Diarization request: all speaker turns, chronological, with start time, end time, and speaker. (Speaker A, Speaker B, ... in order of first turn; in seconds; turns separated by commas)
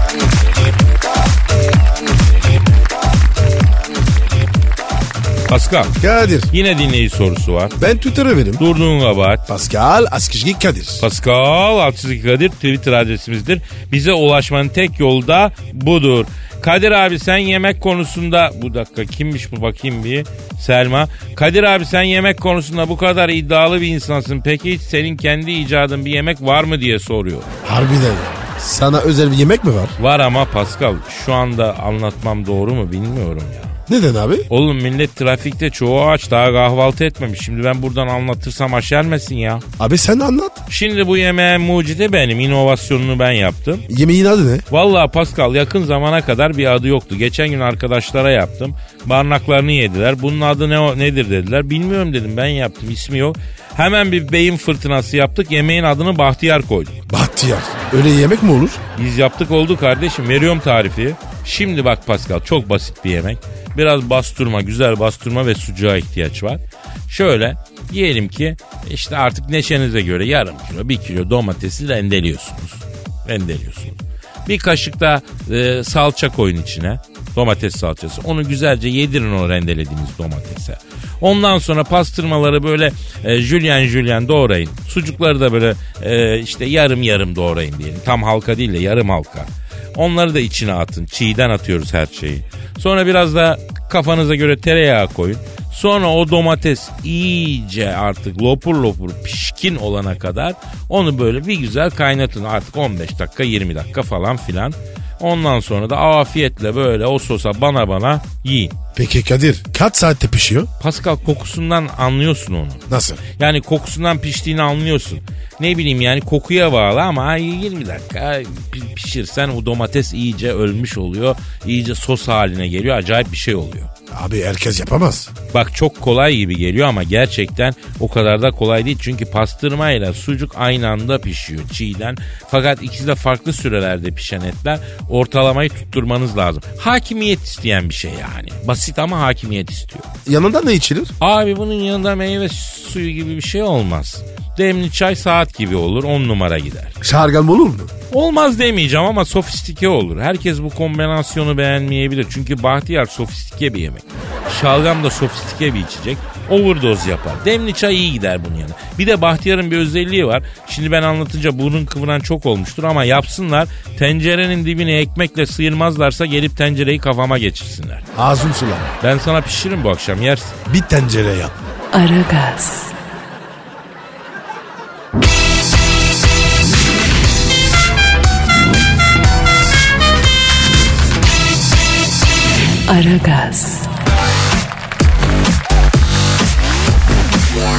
Speaker A: 5.5-6.0, Speaker B: 6.0-6.5, Speaker A: 6.5-7.8, Speaker B: 7.8-8.6, Speaker A: 8.6-9.4, Speaker B: 9.5-11.0, Speaker A: 11.0-27.5, Speaker B: 27.6-29.9, Speaker A: 30.0-33.8, Speaker B: 33.9-34.5, Speaker A: 34.5-39.6, Speaker B: 39.8-40.6, Speaker A: 40.7-43.9, Speaker B: 43.9-44.6, Speaker A: 44.7-57.0, Speaker B: 57.1-58.8, Speaker A: 59.0-108.7, Speaker B: 108.9-110.7, Speaker A: 110.8-112.8, Speaker B: 112.9-113.2, Speaker A: 113.4-123.9, Speaker B: 124.1-125.3, Speaker A: 125.5-140.1, Speaker B: 140.2-141.1, Speaker A: 141.2-146.9, Speaker B: 147.0-147.9, Speaker A: 148.1-168.1, Speaker B: 168.1-168.9, Speaker A: 169.0-170.6, Speaker B: 170.7-171.6, Speaker C: 171.9-172.9, Speaker C: 182.9-183.9